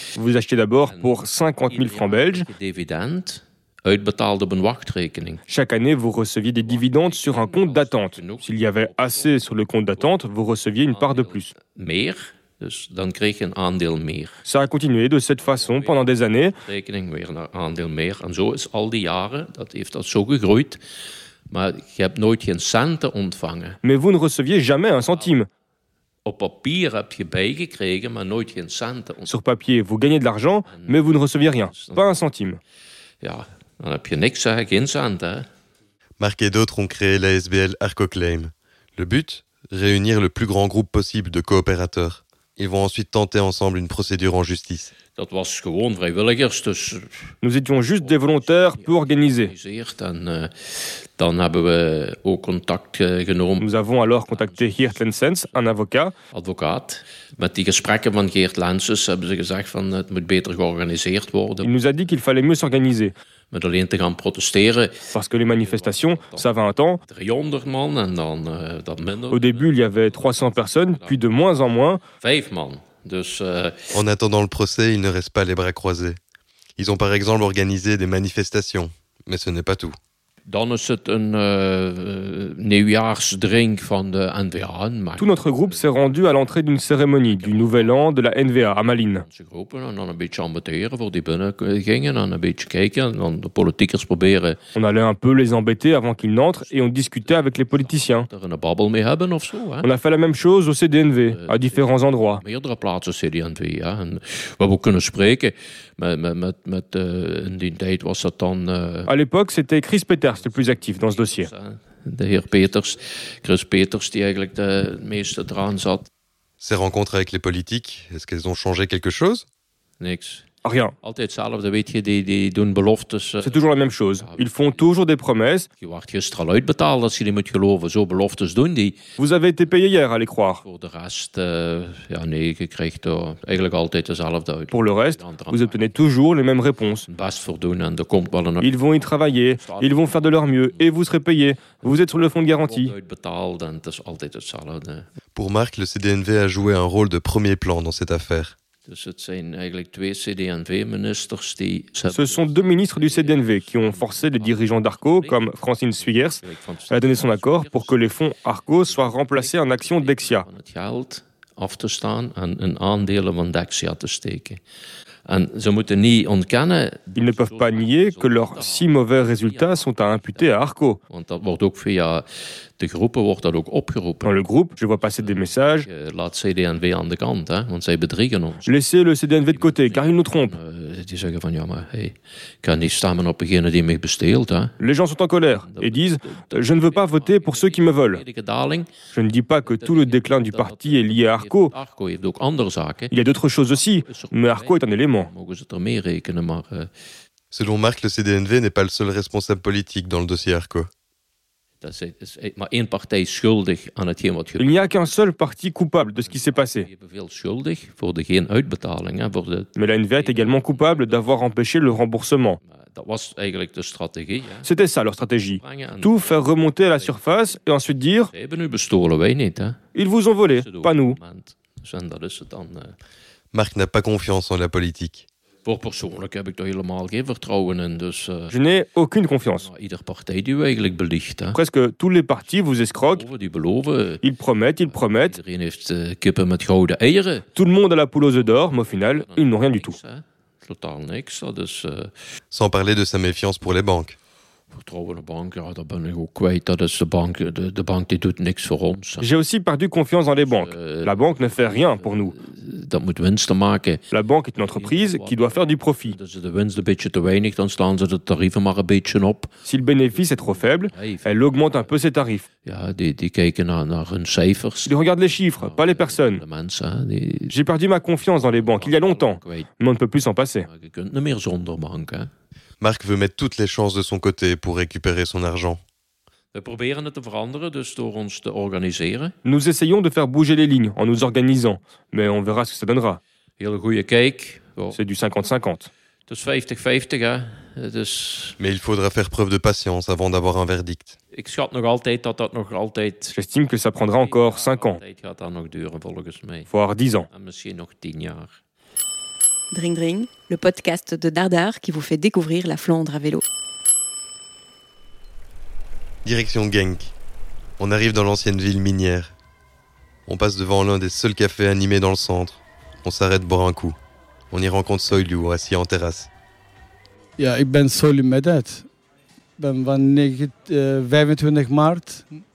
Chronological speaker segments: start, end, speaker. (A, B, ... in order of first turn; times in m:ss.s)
0:00.2-0:02.5 A
0:00.9-0:05.4 B
0:05.5-0:11.5 A
0:06.5-0:10.1 B
0:10.9-0:14.4 B
0:14.4-0:16.6 A
0:15.4-0:16.1 B
0:16.6-0:20.8 B
0:21.5-0:23.8 B
0:23.8-0:25.5 A
0:26.2-0:29.3 B
0:29.2-0:32.6 A
0:30.7-0:32.0 B
0:33.2-0:35.4 B
0:36.2-0:44.9 C
0:45.1-0:47.3 B
0:47.4-0:49.5 A
0:47.9-0:53.7 B
0:53.6-0:56.1 A
0:54.2-0:55.6 B
0:56.3-1:01.7 B
1:01.6-1:03.1 A
1:03.5-1:06.5 B
1:05.1-1:07.0 A
1:07.0-1:11.2 B
1:09.3-1:12.0 A
1:12.2-1:13.9 B
1:13.9-1:16.2 C
1:16.8-1:20.0 C
1:20.5-1:26.4 B
1:25.2-1:29.2 A
1:27.2-1:28.0 B
1:28.6-1:34.6 B
1:34.7-1:38.3 A
1:36.5-1:39.9 B
1:39.8-1:42.4 A
1:41.2-1:49.1 B
1:49.1-1:51.5 A
1:50.2-1:56.1 B
1:56.6-1:59.4 C
2:00.0-2:04.8 B
2:00.6-2:00.9 A
2:03.4-2:05.7 A
2:05.8-2:09.0 B
2:09.2-2:10.6 A
2:10.6-2:15.9 B
2:14.7-2:17.0 A
2:17.1-2:21.0 B
2:18.6-2:22.9 A
2:21.6-2:21.9 B
2:22.6-2:25.1 B
2:25.3-2:28.6 C
2:28.8-2:38.2 B
2:32.1-2:40.5 A
2:38.8-2:44.6 B
2:45.2-2:50.6 B
2:47.1-2:51.0 A
2:51.1-2:52.3 B
2:52.8-2:54.4 B
2:54.2-2:55.9 A
2:55.0-2:58.7 B
2:58.6-3:00.6 A
2:59.4-3:04.8 B
3:04.8-3:08.2 A
3:05.5-3:08.9 B
3:09.1-3:11.7 A
3:09.6-3:16.9 B
3:13.1-3:15.3 A
3:17.5-3:20.9 C
3:21.8-3:24.7 B
3:24.6-3:26.9 A
3:26.0-3:31.5 B
3:29.8-3:32.6 A
3:32.6-3:34.7 B
3:34.6-3:38.3 A
3:35.3-3:37.6 B
3:38.3-3:39.9 B
3:39.9-3:41.2 A
3:40.6-3:42.9 B
3:43.5-3:45.3 C
3:45.6-3:48.6 B
3:48.5-3:49.7 A
3:49.5-3:51.6 B
3:51.5-3:53.2 A
3:52.4-3:54.2 B
3:54.2-3:55.4 A
3:54.8-3:57.5 B
3:57.5-4:00.0 A
3:58.2-4:02.1 B
4:02.5-4:04.2 C
4:04.7-4:09.3 B
4:09.2-4:12.3 A
4:10.4-4:19.6 B
4:14.1-4:16.2 A
4:19.6-4:22.4 A
4:20.1-4:21.9 B
4:22.6-4:27.5 B
4:24.8-4:26.4 A
4:27.5-4:30.7 A
4:28.4-4:29.7 B
4:30.6-4:32.3 B
4:32.8-4:35.8 C
4:36.5-4:39.3 B
4:39.4-4:43.2 A
4:43.6-4:45.0 B
4:44.9-4:45.9 A
4:46.3-4:48.6 B
4:48.6-4:51.1 C
4:51.3-4:53.4 B
4:53.3-4:55.0 A
4:54.1-4:56.7 B
4:56.7-4:57.3 A
4:57.3-4:58.6 B
4:59.7-5:03.4 D
5:06.2-5:07.1 C
5:07.8-5:09.3 C
5:10.2-5:14.0 C
5:14.5-5:16.3 C
5:17.4-5:18.9 E
5:19.6-5:22.3 E